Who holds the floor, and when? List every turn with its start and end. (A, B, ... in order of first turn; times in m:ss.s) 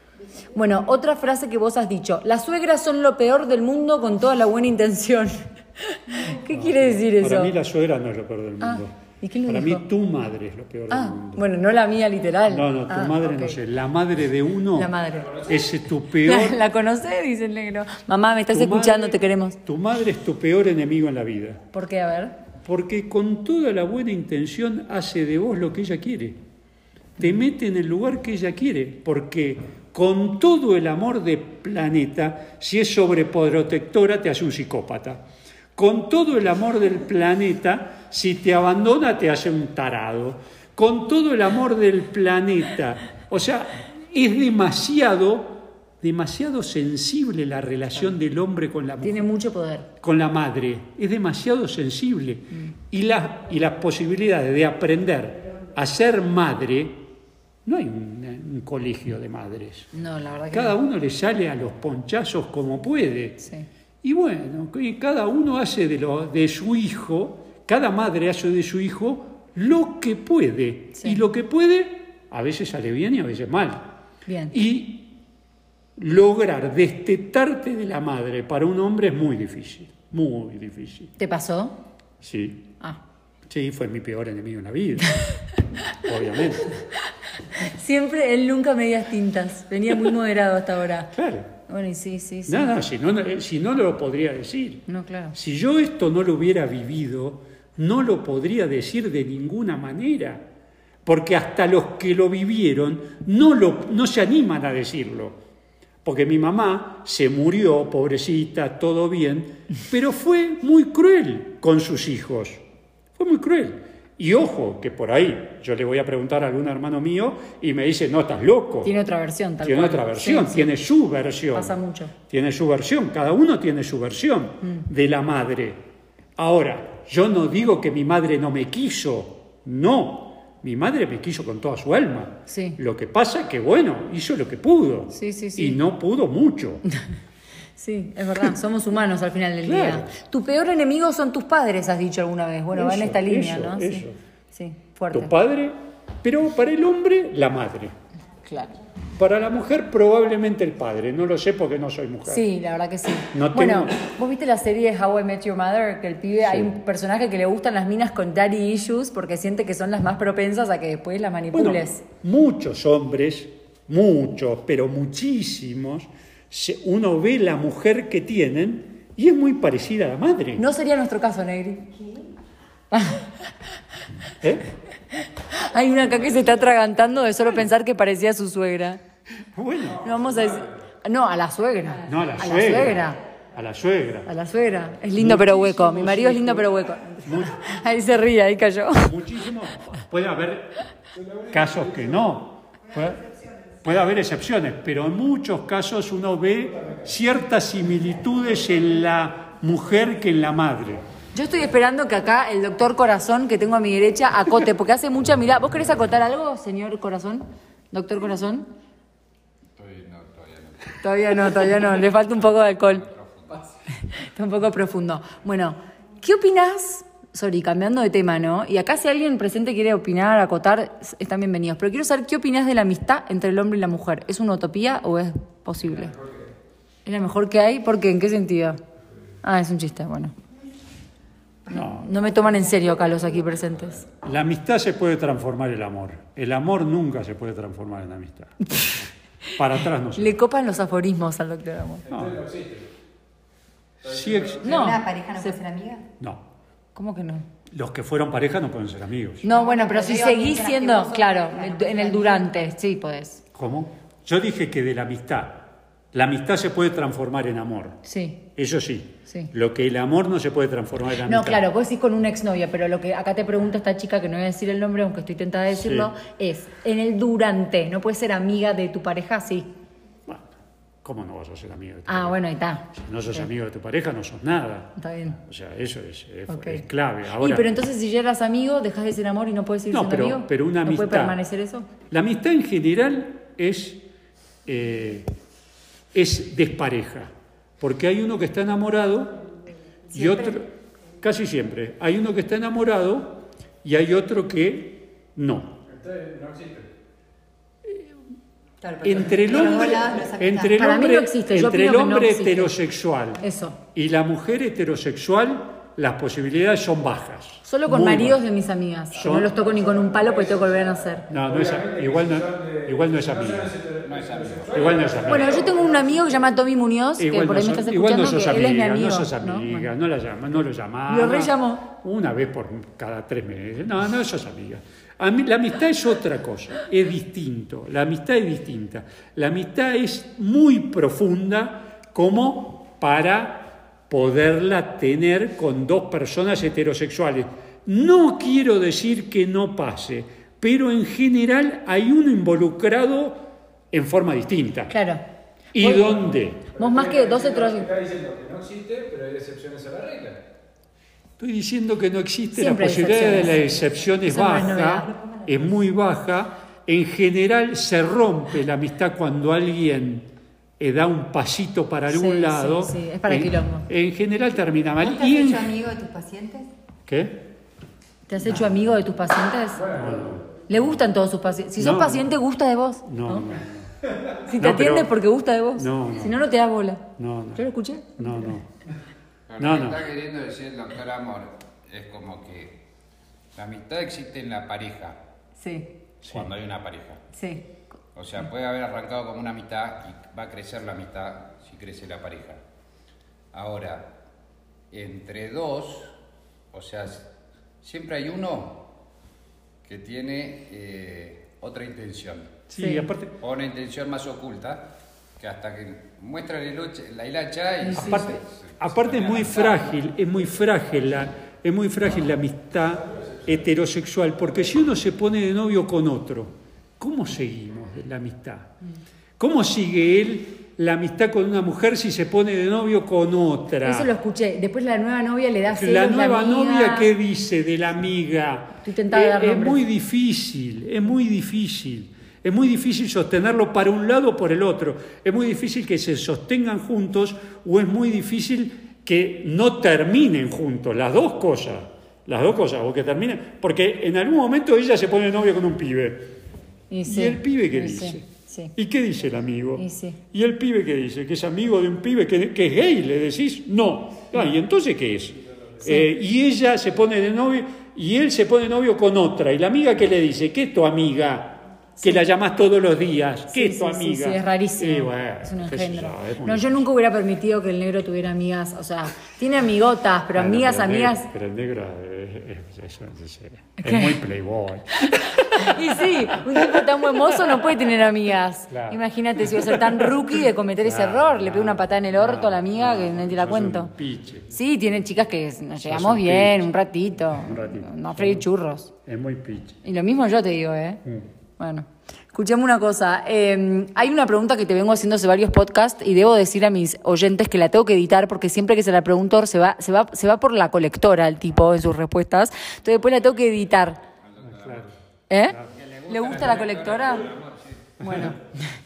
0:00.5-0:07.5 A
0:06.5-0:11.4 B
0:08.6-0:09.8 A
0:10.9-0:13.6 A
0:12.4-0:16.6 B
0:14.7-0:15.5 A
0:16.2-0:19.6 A
0:18.5-0:21.6 B
0:21.7-0:22.4 A
0:22.6-0:26.4 B
0:27.2-0:35.2 B
0:35.8-0:49.3 B
0:49.0-0:49.9 A
0:50.0-0:57.1 B
0:57.6-0:59.9 B
0:59.9-1:00.8 A
1:00.5-1:03.4 B
1:03.4-1:03.6 A
1:04.0-1:13.9 B
1:10.9-1:11.2 A
1:14.2-1:14.5 A
1:14.5-1:15.2 B
1:16.0-1:21.1 B
1:21.2-1:21.8 A
1:22.2-1:22.7 B
1:23.5-1:25.2 B
1:25.9-1:26.8 B
1:27.6-1:31.1 A
1:31.1-1:31.5 B
1:31.7-1:32.7 A
1:32.5-1:40.4 B
1:34.9-1:35.4 A
1:41.0-1:45.4 B
1:46.0-1:52.6 B
1:53.2-1:58.9 B
1:58.8-2:00.7 A
1:59.6-2:01.8 B
2:01.5-2:02.1 A
2:02.3-2:05.8 B
2:06.4-2:16.8 B
2:12.5-2:12.8 A
2:15.1-2:15.8 A
2:17.8-2:25.3 A
2:19.6-2:20.1 B
2:22.7-2:24.2 B
2:25.1-2:27.9 B
2:28.4-2:28.8 A
2:29.1-2:32.4 B
2:32.2-2:42.0 A
2:33.3-2:34.0 B
2:36.4-2:36.7 B
2:41.5-2:50.6 B
2:50.6-2:51.9 A
2:52.9-2:53.3 A
2:54.4-2:54.7 B
2:55.2-2:59.0 A
2:59.5-3:00.1 B
3:00.0-3:03.2 A
3:02.0-3:04.3 B
3:04.2-3:09.2 A
3:05.1-3:06.7 B
3:07.2-3:07.7 B
3:09.0-3:10.8 B
3:11.1-3:12.2 C
3:11.5-3:13.3 B
3:13.8-3:21.0 B
3:21.3-3:28.7 A
3:29.8-3:33.7 D
3:31.0-3:33.0 A
3:34.1-3:46.2 A
3:47.0-3:48.8 A
3:49.4-3:50.4 A
3:51.7-3:52.1 B
3:51.7-3:54.0 A
3:54.2-3:58.7 B
3:58.7-3:59.0 A
3:59.6-4:00.4 B
4:00.2-4:02.1 A
4:02.1-4:02.9 C
4:02.1-4:02.4 B
4:04.0-4:04.6 C
4:04.0-4:04.6 B
4:04.6-4:06.0 E
4:04.6-4:05.6 A
4:06.2-4:06.4 B
4:06.9-4:07.5 A
4:07.7-4:09.5 B
4:09.4-4:13.4 A
4:09.4-4:12.5 E
4:13.5-4:18.0 B
4:18.0-4:18.4 A
4:18.6-4:21.6 B
4:21.2-4:29.7 A
4:25.7-4:26.1 B
4:30.3-4:30.5 B
4:31.0-4:32.4 B
4:32.1-4:33.5 A
4:32.9-4:37.7 B
4:35.0-4:35.4 A
4:36.5-4:36.8 A
4:37.4-4:41.9 A
4:39.9-4:41.4 B
4:42.1-4:44.0 B
4:44.6-4:45.3 B
4:46.1-4:49.4 B
4:50.1-4:55.8 B
4:55.9-4:56.9 C
4:57.8-4:58.1 B
4:58.8-5:00.8 E
4:59.0-5:08.4 B
5:00.7-5:02.8 A
5:03.4-5:03.8 A
5:07.6-5:11.3 A
5:09.2-5:09.5 B
5:09.6-5:16.4 C
5:11.3-5:13.8 B
5:14.0-5:15.0 D
5:14.7-5:15.7 B
5:15.3-5:19.9 A
5:17.2-5:45.0 B
5:21.1-5:21.9 A
5:44.9-5:45.2 A
5:45.7-5:46.7 B
5:45.8-5:46.2 A
5:46.7-5:50.4 C
5:46.8-5:47.9 A
5:51.4-6:05.8 B
5:52.5-5:55.2 A
6:02.1-6:03.9 A
6:05.0-6:06.7 E
6:07.1-6:07.4 B
6:08.3-6:09.9 A
6:08.4-6:08.8 B
6:09.8-6:10.4 C
6:09.9-6:10.4 B
6:10.7-6:13.5 A
6:11.8-6:12.3 B
6:13.0-6:13.9 B
6:14.5-6:18.5 A
6:14.6-6:15.1 B
6:15.8-6:16.4 B
6:17.2-6:18.6 B
6:19.5-6:22.8 D
6:19.6-6:20.0 B
6:23.5-6:25.2 D
6:25.6-6:25.9 A
6:26.2-6:27.2 D
6:27.3-6:27.6 A
6:28.1-6:32.6 D
6:33.5-6:34.1 D
6:34.9-6:36.2 D
6:36.7-6:37.3 D
6:37.8-6:38.8 D
6:39.8-6:42.6 D
6:42.7-6:43.3 B
6:42.8-6:43.1 A
6:43.4-6:49.9 D
6:47.8-6:48.3 A
6:47.9-6:58.7 B
6:59.4-7:04.1 B
7:03.8-7:07.1 A
7:05.7-7:26.3 B
7:08.8-7:09.8 A
7:26.9-7:28.7 A
7:27.0-7:46.8 B
7:29.8-7:30.2 A
7:43.5-7:51.3 A
7:50.3-7:57.6 B
7:53.8-7:54.2 A
7:55.4-8:03.9 A
7:58.7-8:00.1 B
8:00.8-8:04.5 B
8:04.5-8:08.9 A
8:05.8-8:06.7 B
8:07.3-8:08.4 B
8:09.0-8:09.8 B
8:09.8-8:11.0 A
8:11.6-8:24.0 A
8:24.2-8:24.9 D
8:24.4-8:24.9 B
8:25.3-8:27.3 A
8:25.4-8:25.7 B
8:25.7-8:27.7 D
8:28.0-8:28.3 B
8:28.0-8:28.4 A